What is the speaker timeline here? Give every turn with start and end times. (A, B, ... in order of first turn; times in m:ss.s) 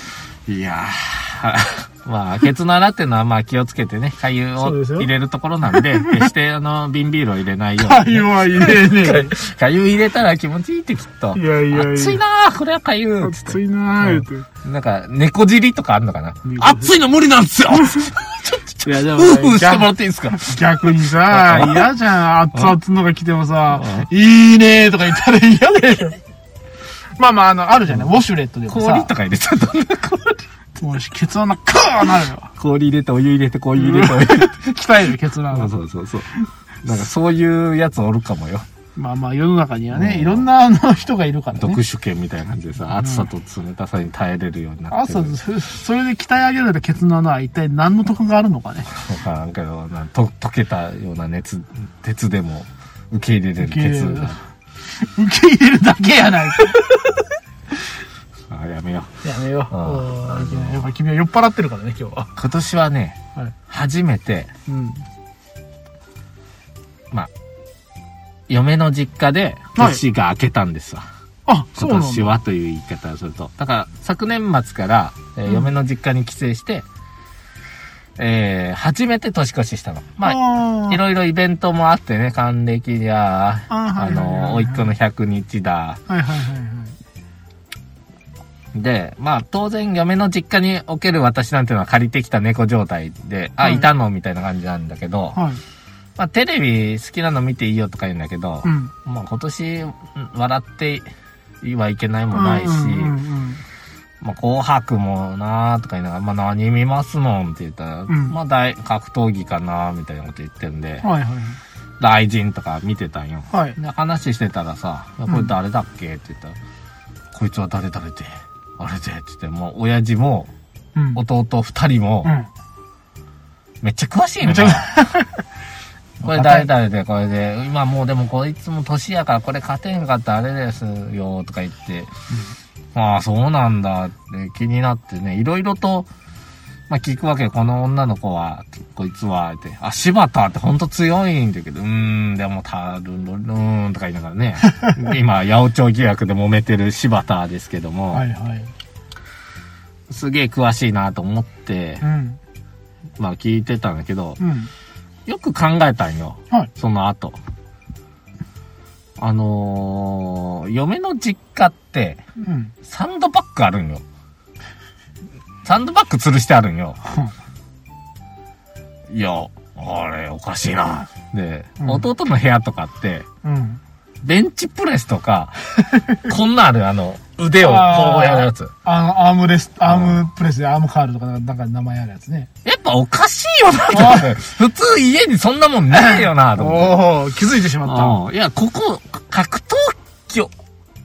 0:00.5-0:20.6 A
0:04.6-0:05.1 B
0:05.7-0:06.3 B
0:07.8-0:09.3 B
0:11.3-0:12.2 B
0:13.2-0:14.4 B
0:16.4-0:17.0 B
0:17.7-0:18.1 B
0:18.8-0:26.2 B
0:21.2-0:21.9 A
0:23.7-0:24.1 A
0:27.2-0:29.1 B
0:28.7-0:30.4 A
0:30.7-0:32.5 B
0:32.6-0:34.7 A
0:33.8-0:35.7 B
0:35.5-0:36.3 A
0:36.8-0:38.6 A
0:39.0-0:41.8 B
0:39.9-0:40.4 A
0:41.5-0:45.3 A
0:42.9-0:43.3 B
0:44.9-0:48.9 B
0:48.9-0:54.4 A
0:53.6-0:57.3 B
0:58.5-1:00.9 A
0:59.2-1:02.3 B
1:02.4-1:04.5 A
1:04.7-1:05.0 B
1:08.5-1:11.1 A
1:09.8-1:10.0 B
1:11.4-1:12.3 B
1:11.8-1:16.8 A
1:18.2-1:26.0 A
1:20.2-1:21.0 B
1:23.7-1:24.9 B
1:26.1-1:27.0 B
1:28.7-1:35.4 A
1:33.6-1:33.9 B
1:35.3-1:35.6 B
1:36.2-1:41.0 A
1:38.6-1:38.9 B
1:41.6-1:43.2 A
1:42.3-1:43.6 B
1:44.2-1:51.1 A
1:48.1-1:48.3 B
1:51.0-1:51.6 B
1:52.0-1:56.6 A
1:53.5-1:53.8 B
1:55.3-1:55.5 B
1:57.3-2:00.5 A
2:00.9-2:01.2 B
2:01.1-2:02.3 A
2:02.2-2:02.5 B
2:03.8-2:05.0 A
2:04.4-2:05.4 B
2:06.2-2:12.1 A
2:06.2-2:06.7 B
2:12.9-2:16.1 A
2:16.9-2:28.2 A
2:28.1-2:28.7 B
2:30.1-2:32.0 A
2:32.0-2:32.4 B
2:33.2-2:34.4 A
2:34.4-2:34.7 B
2:35.2-2:37.4 A
2:39.2-2:42.2 A
2:42.4-2:42.7 B
2:42.8-2:44.0 A
2:45.6-2:47.0 A
2:49.1-2:53.2 A
2:53.4-2:53.8 B
2:54.2-2:58.7 A
2:57.6-3:02.5 B
2:59.8-3:00.2 A
3:02.6-3:07.0 A
3:03.9-3:04.3 B
3:05.9-3:08.2 B
3:07.8-3:10.5 A